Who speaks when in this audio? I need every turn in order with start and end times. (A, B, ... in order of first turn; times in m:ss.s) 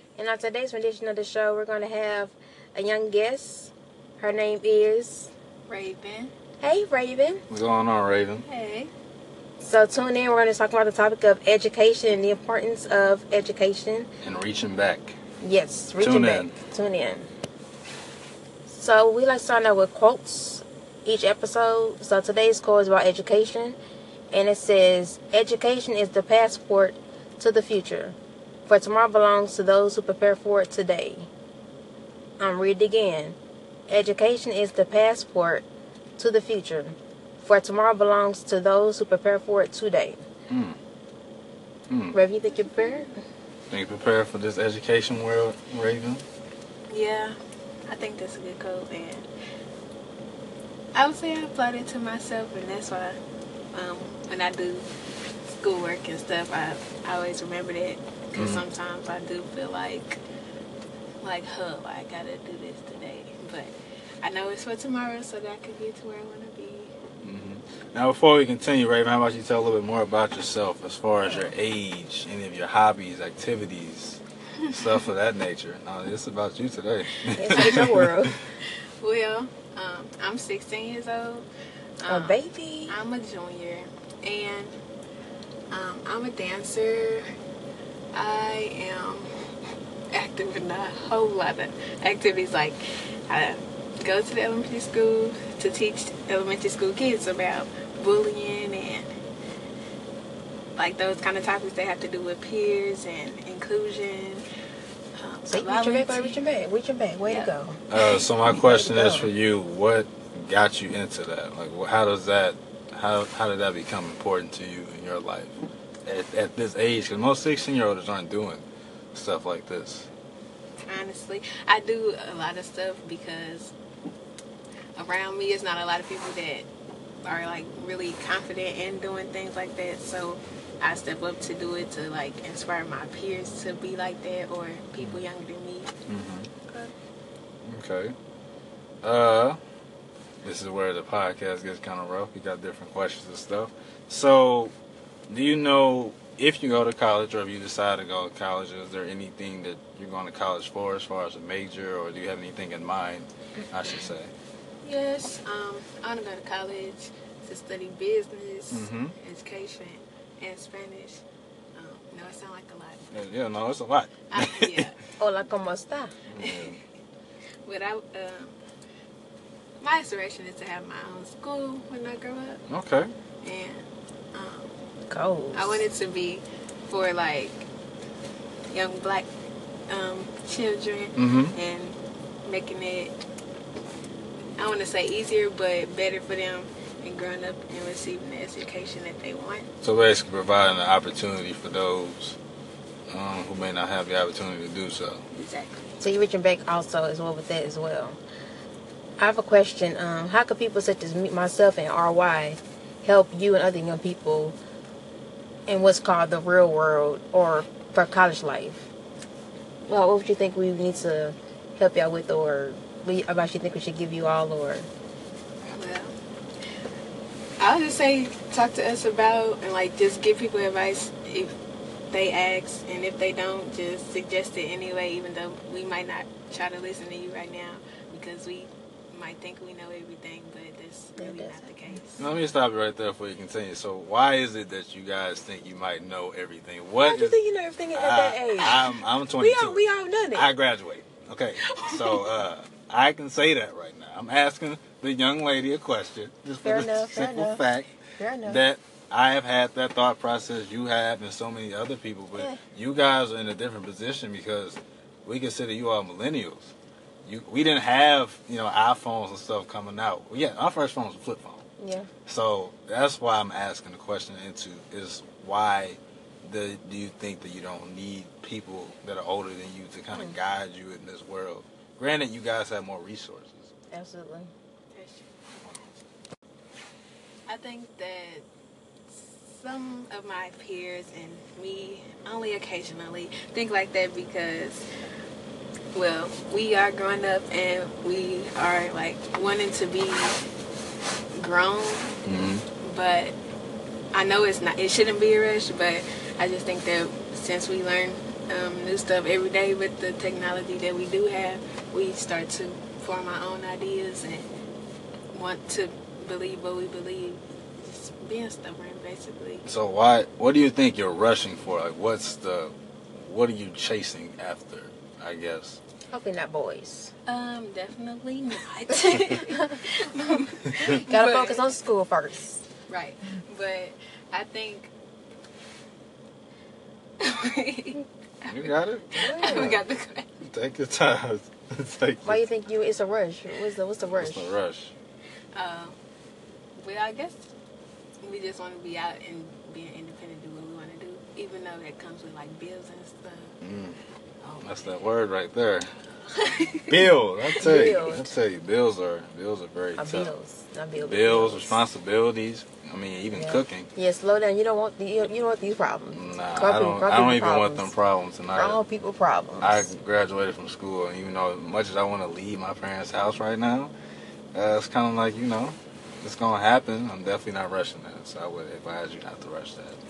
0:00.2-0:05.3 A
0:05.7-0:06.3 B
0:06.6-0:07.4 A
0:07.5-0:08.5 C
0:08.4-0:08.9 B
0:09.6-0:14.1 A
0:14.2-0:15.2 C
0:15.4-0:17.3 A
0:16.0-0:16.5 C
0:18.7-0:23.8 A
0:24.3-0:28.2 A
0:28.7-0:31.3 A
0:32.4-0:33.4 A
0:33.9-0:35.6 A
0:36.2-0:40.2 A
0:40.5-0:40.8 C
0:41.9-0:42.2 C
0:42.1-0:43.1 A
0:43.7-0:46.2 C
0:46.9-0:49.3 B
0:50.9-0:53.2 B
0:53.7-0:54.9 B
0:55.5-1:00.2 B
0:58.4-0:58.6 C
1:01.2-1:06.9 B
1:07.2-1:18.4 C
1:14.6-1:15.0 B
1:17.3-1:17.9 B
1:17.3-1:18.4 A
1:19.0-1:21.5 B
1:22.0-1:24.7 B
1:22.1-1:23.0 A
1:25.7-1:27.2 B
1:28.1-1:29.3 B
1:30.1-1:39.1 B
1:40.8-1:44.4 B
1:45.2-1:46.4 B
1:45.5-1:47.9 A
1:47.3-1:48.2 B
1:47.9-2:00.1 C
1:48.4-1:49.3 A
2:00.9-2:03.7 B
2:05.0-2:06.7 B
2:07.2-2:15.9 B
2:15.0-2:15.2 C
2:16.1-2:16.5 C
2:17.7-2:18.1 C
2:19.0-2:19.6 C
2:20.4-2:24.7 C
2:25.3-2:34.3 C
2:34.8-2:41.2 B
2:38.7-2:39.2 C
2:41.8-2:43.1 B
2:43.1-2:44.9 C
2:44.3-2:45.0 B
2:45.2-2:46.2 A
2:46.3-2:46.8 C
2:46.4-2:46.8 B
2:47.6-2:48.6 B
2:49.8-2:52.6 B
2:52.7-2:53.1 C
2:53.4-2:54.8 B
2:55.1-2:55.8 A
2:55.5-2:57.6 B
2:58.7-2:59.3 B
2:59.9-3:03.1 B
3:01.2-3:01.6 C
3:04.6-3:09.7 B
3:09.8-3:12.4 C
3:13.1-3:15.2 C
3:15.3-3:16.1 B
3:16.0-3:18.2 A
3:19.2-3:24.6 A
3:25.7-3:28.9 A
3:29.9-3:34.9 A
3:35.7-3:36.1 B
3:37.6-3:41.5 B
3:42.1-3:52.3 B
3:51.2-3:52.0 A
3:52.2-3:57.4 C
3:57.0-4:00.5 A
3:58.0-4:07.9 C
4:01.7-4:02.1 B
4:06.6-4:07.6 A
4:08.2-4:08.6 A
4:08.4-4:16.7 C
4:12.4-4:12.6 A
4:17.3-4:21.6 C
4:21.8-4:22.1 A
4:22.3-4:33.7 C
4:33.9-4:34.5 A
4:34.9-4:35.3 B
4:35.5-4:35.9 C
4:37.5-4:38.5 B
4:39.1-4:44.8 B
4:46.0-4:50.4 B
4:51.4-4:52.1 B
4:52.2-4:52.7 C
4:52.8-4:53.4 B
4:54.1-5:04.5 B
5:05.3-5:09.6 B
5:09.7-5:15.8 C
5:16.1-5:17.1 A
5:17.3-5:21.6 B
5:19.1-5:19.8 A
5:20.8-5:22.7 A
5:22.9-5:24.9 B
5:27.2-5:30.4 B
5:28.5-5:29.8 C
5:29.2-5:29.8 A
5:30.4-5:32.4 C
5:32.2-5:34.6 A
5:34.1-5:34.9 C
5:35.6-5:36.0 B
5:36.8-5:37.5 B
5:38.2-5:43.6 B
5:43.6-5:45.9 C
5:46.2-5:47.6 B
5:46.9-5:50.3 C
5:47.6-5:48.3 A
5:50.0-5:51.8 A
5:51.0-5:53.9 C
5:53.3-5:57.9 A
5:56.1-5:58.8 C
5:58.5-5:59.9 A
5:59.6-6:03.9 C
6:04.5-6:10.0 C